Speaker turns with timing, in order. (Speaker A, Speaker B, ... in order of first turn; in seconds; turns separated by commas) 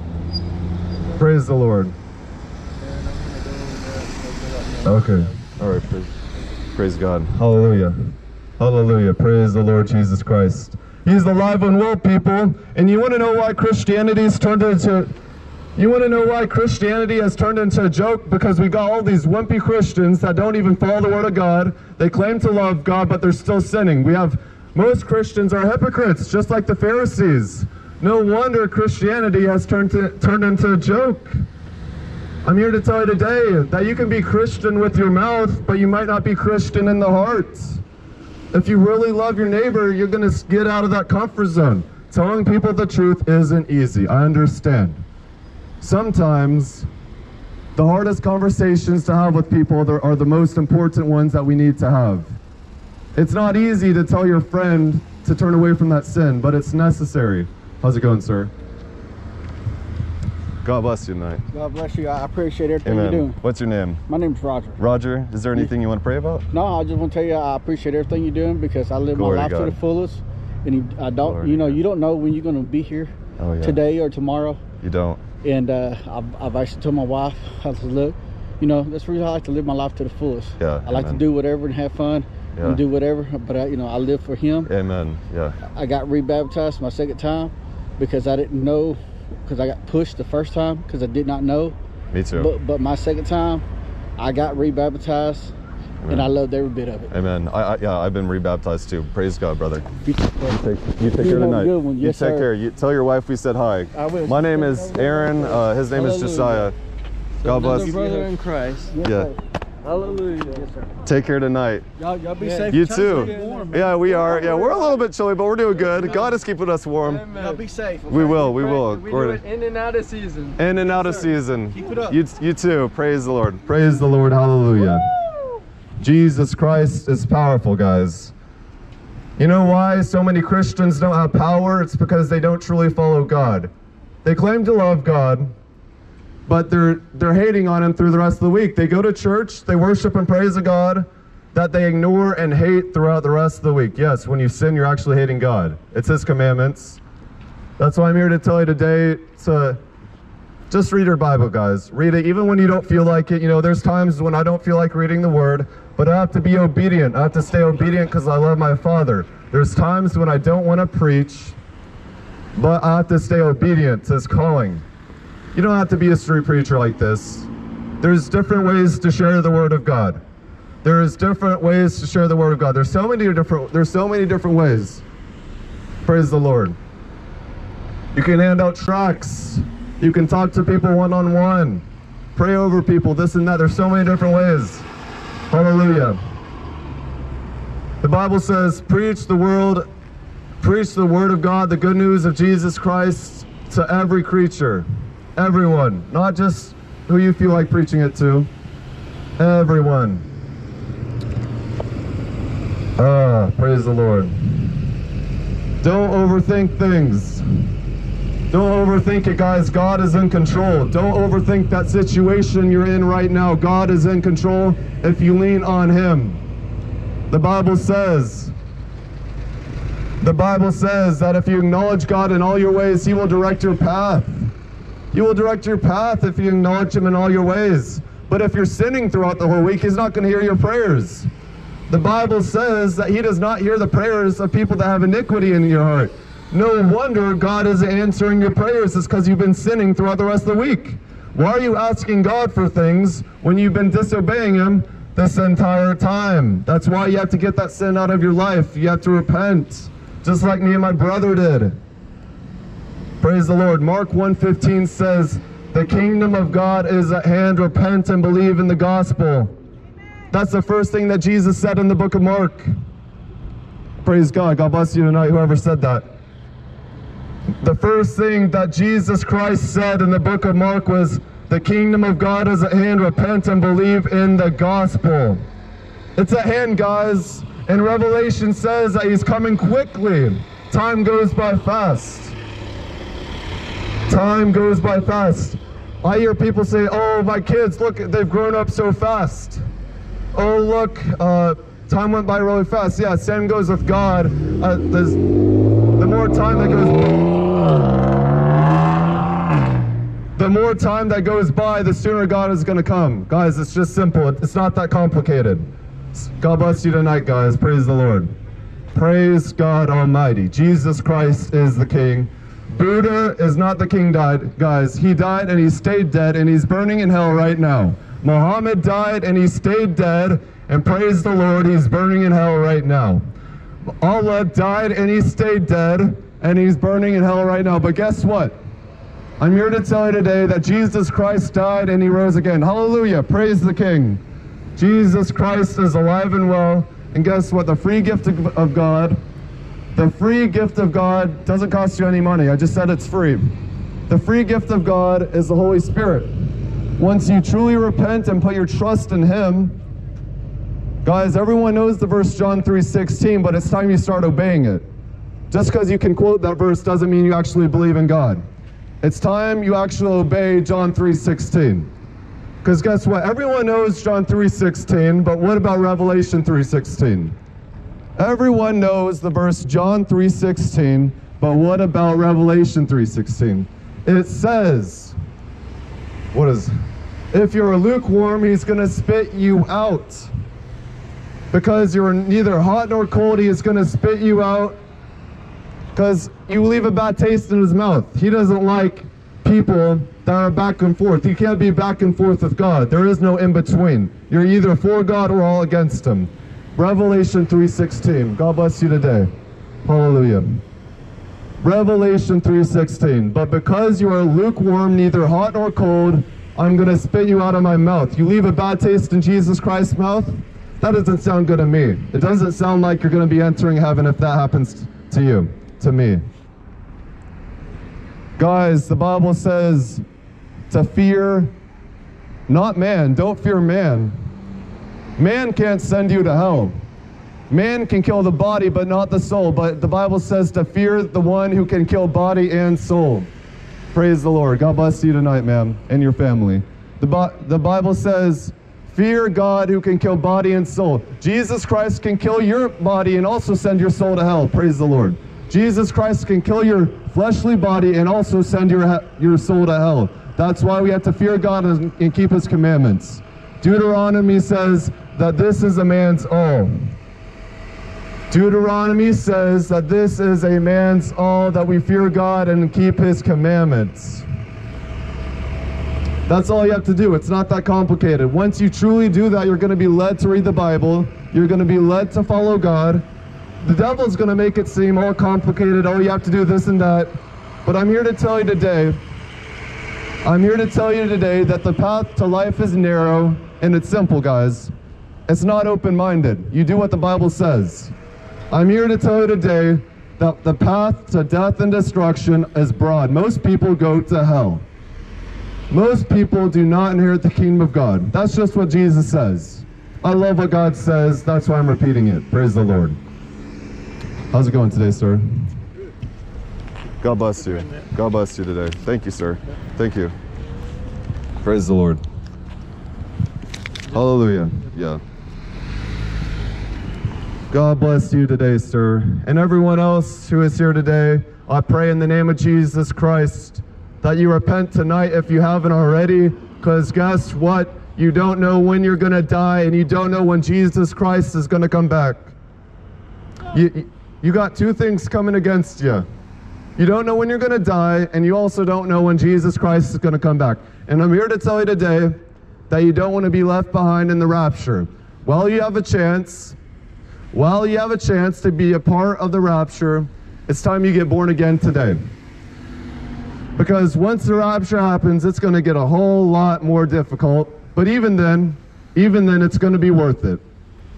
Speaker A: 1.1-1.9, Speaker B: 3.3-4.8, Speaker A: 4.8-6.1, Speaker A: 6.7-15.1, Speaker A: 15.8-31.3, Speaker A: 32.4-37.8, Speaker A: 38.5-45.0, Speaker A: 45.8-46.9, Speaker A: 47.8-52.3, Speaker A: 53.1-58.5, Speaker A: 60.6-61.4, Speaker C: 61.5-63.4, Speaker A: 62.8-64.0, Speaker C: 64.1-64.8, Speaker A: 64.8-66.5, Speaker C: 66.5-74.6, Speaker A: 69.1-69.8, Speaker A: 71.2-71.8, Speaker A: 73.4-73.8, Speaker A: 74.8-75.2, Speaker C: 75.4-84.7, Speaker A: 80.6-81.2, Speaker A: 82.5-82.8, Speaker A: 84.7-85.6, Speaker C: 85.6-91.8, Speaker A: 92.1-92.5, Speaker C: 92.3-93.6, Speaker C: 94.2-95.5, Speaker A: 96.0-96.3, Speaker C: 96.1-97.1, Speaker A: 97.1-99.9, Speaker C: 100.0-100.6, Speaker A: 100.4-106.7, Speaker C: 101.2-102.5, Speaker C: 103.9-106.7, Speaker A: 107.4-108.0, Speaker B: 107.5-108.9, Speaker C: 107.5-108.3, Speaker C: 108.9-109.3, Speaker A: 109.0-109.3, Speaker B: 109.8-110.5, Speaker C: 110.4-110.9, Speaker A: 111.0-111.8, Speaker B: 112.0-114.5, Speaker C: 112.4-113.9, Speaker A: 112.7-117.2, Speaker B: 117.2-120.5, Speaker C: 117.3-117.7, Speaker A: 118.1-119.4, Speaker A: 120.6-125.0, Speaker A: 126.0-128.3, Speaker A: 129.4-133.7, Speaker A: 134.2-135.5, Speaker A: 136.5-147.0, Speaker A: 147.8-149.8, Speaker A: 150.7-161.6, Speaker A: 162.5-164.8, Speaker A: 165.5-167.5, Speaker A: 168.0-170.2, Speaker A: 170.8-175.0, Speaker A: 176.0-176.8, Speaker A: 178.1-181.8, Speaker A: 182.3-184.9, Speaker A: 185.5-186.2, Speaker A: 188.0-189.8, Speaker A: 190.6-198.5, Speaker A: 199.4-200.2, Speaker A: 203.0-204.7, Speaker A: 205.8-207.4, Speaker A: 208.5-216.4, Speaker A: 217.3-218.5, Speaker A: 220.2-224.5, Speaker A: 225.1-231.3, Speaker A: 231.9-251.8, Speaker A: 253.2-259.5, Speaker A: 260.3-262.7, Speaker A: 264.0-266.1, Speaker A: 267.6-275.4, Speaker A: 276.1-282.4, Speaker A: 284.1-289.6, Speaker A: 290.3-295.2, Speaker A: 296.0-297.3, Speaker A: 300.4-308.3, Speaker A: 308.9-323.2, Speaker A: 324.0-328.6, Speaker A: 329.4-334.2, Speaker A: 334.8-339.2, Speaker A: 339.9-343.5, Speaker A: 344.1-346.3, Speaker A: 347.0-349.8, Speaker A: 351.0-354.9, Speaker A: 355.5-358.4, Speaker A: 359.0-361.9, Speaker A: 362.6-367.3, Speaker A: 368.2-375.1, Speaker A: 376.3-376.7, Speaker A: 377.3-380.3, Speaker A: 381.5-384.8, Speaker A: 385.9-399.3, Speaker A: 399.8-400.6, Speaker A: 401.6-416.2, Speaker A: 418.4-420.0, Speaker A: 420.7-421.5, Speaker A: 422.5-424.1, Speaker A: 425.2-426.8, Speaker A: 427.5-433.3, Speaker A: 433.9-456.8, Speaker A: 458.3-464.2, Speaker A: 466.3-473.0, Speaker A: 473.6-479.0, Speaker A: 480.2-484.7, Speaker A: 485.3-487.9, Speaker A: 488.5-494.6, Speaker A: 495.7-503.0, Speaker A: 504.3-505.2, Speaker A: 507.0-510.1, Speaker A: 511.4-512.0, Speaker A: 513.9-515.0, Speaker A: 517.5-532.3, Speaker A: 533.5-536.0, Speaker A: 536.8-542.2, Speaker A: 542.7-546.6, Speaker A: 547.3-552.0, Speaker A: 553.5-560.4